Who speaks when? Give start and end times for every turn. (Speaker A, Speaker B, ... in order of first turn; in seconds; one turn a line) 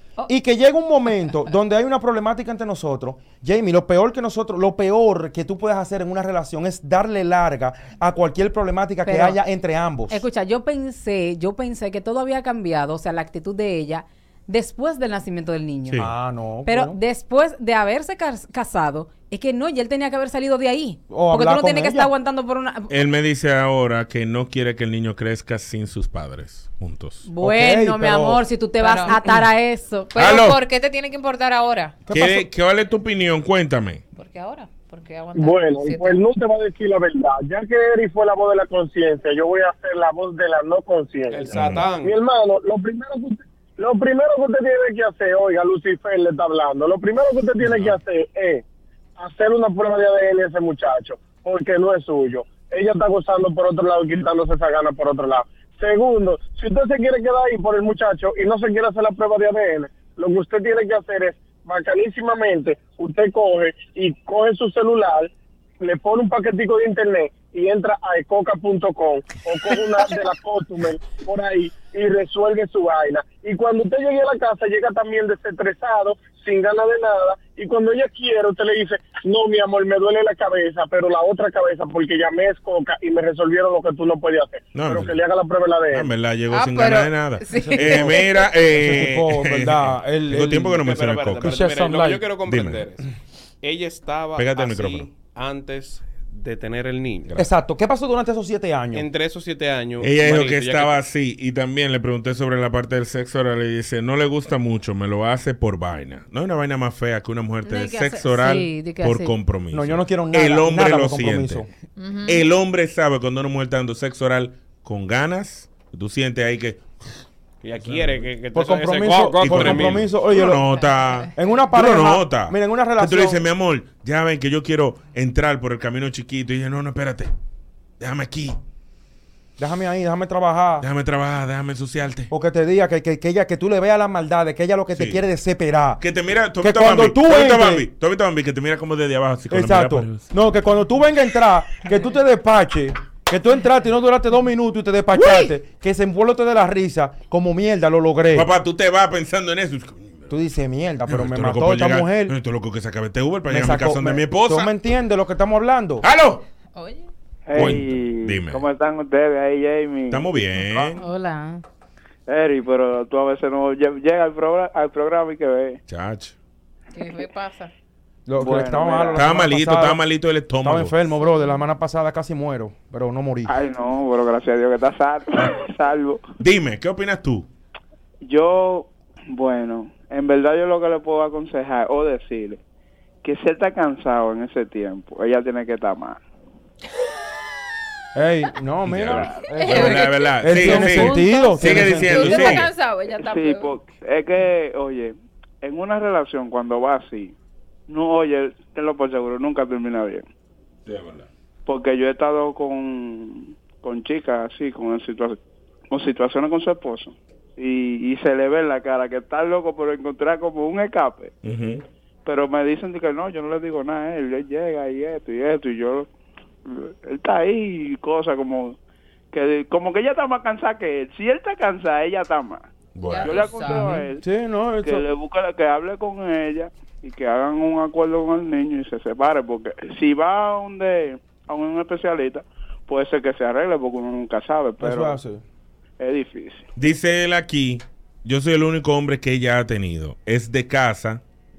Speaker A: 0.3-10.2
Speaker B: 9.0-9.4
Speaker B: 10.1-16.1
Speaker A: 16.0-17.0
Speaker B: 16.6-22.9
Speaker A: 21.1-22.1
Speaker C: 22.9-27.2
Speaker B: 27.2-30.1
Speaker A: 27.4-28.4
Speaker D: 28.8-29.2
Speaker D: 30.1-32.0
Speaker C: 30.1-30.6
Speaker A: 32.1-32.5
Speaker C: 32.1-34.0
Speaker D: 34.1-36.2
Speaker E: 35.3-48.6
Speaker F: 41.3-42.1
Speaker C: 41.5-41.9
Speaker C: 47.7-48.0
Speaker E: 49.2-86.1
Speaker C: 84.7-85.2
Speaker C: 85.9-91.6
Speaker D: 86.5-88.2
Speaker A: 87.5-90.8
Speaker F: 90.8-93.0
Speaker A: 91.4-92.2
Speaker C: 92.5-92.8
Speaker F: 93.6-97.3
Speaker C: 94.4-95.1
Speaker A: 97.3-99.0
Speaker F: 98.9-101.0
Speaker C: 100.0-111.7
Speaker B: 107.6-109.3
Speaker A: 109.7-111.7
Speaker D: 112.0-112.4
Speaker C: 112.2-116.8
Speaker F: 117.6-120.1
Speaker C: 117.8-118.2
Speaker A: 118.5-120.7
Speaker C: 119.4-127.3
Speaker A: 121.3-123.4
Speaker C: 128.0-128.6
Speaker A: 129.6-130.9
Speaker C: 130.8-132.3
Speaker A: 132.3-136.0
Speaker C: 134.9-135.2
Speaker C: 136.0-140.3
Speaker A: 136.6-137.8
Speaker A: 139.5-148.5
Speaker C: 148.3-150.3
Speaker A: 150.3-152.3
Speaker C: 151.1-154.7
Speaker A: 153.5-156.0
Speaker C: 156.0-156.4
Speaker D: 156.8-157.1
Speaker G: 157.5-160.3
Speaker C: 157.5-158.6
Speaker C: 160.1-161.0
Speaker B: 161.0-161.6
Speaker G: 162.3-165.8
Speaker C: 165.9-166.3
Speaker D: 166.9-167.7
Speaker A: 168.2-170.0
Speaker G: 168.4-169.2
Speaker C: 169.1-170.9
Speaker A: 170.6-173.5
Speaker G: 173.4-176.2
Speaker C: 176.4-177.5
Speaker G: 178.2-182.6
Speaker G: 183.2-186.2
Speaker A: 188.1-192.6
Speaker C: 188.8-192.7
Speaker D: 189.6-190.1
Speaker B: 190.6-191.8
Speaker D: 190.9-193.7
Speaker G: 193.2-197.3
Speaker G: 197.9-200.2
Speaker C: 200.8-201.3
Speaker G: 201.7-205.4
Speaker G: 205.9-211.3
Speaker C: 211.4-211.8
Speaker G: 212.2-216.1
Speaker G: 216.7-218.8
Speaker G: 219.3-222.6
Speaker C: 222.9-223.5
Speaker D: 223.0-224.1
Speaker G: 223.2-224.2
Speaker A: 224.2-225.1
Speaker G: 224.8-235.2
Speaker A: 234.8-235.4
Speaker G: 236.0-236.7
Speaker C: 236.8-241.2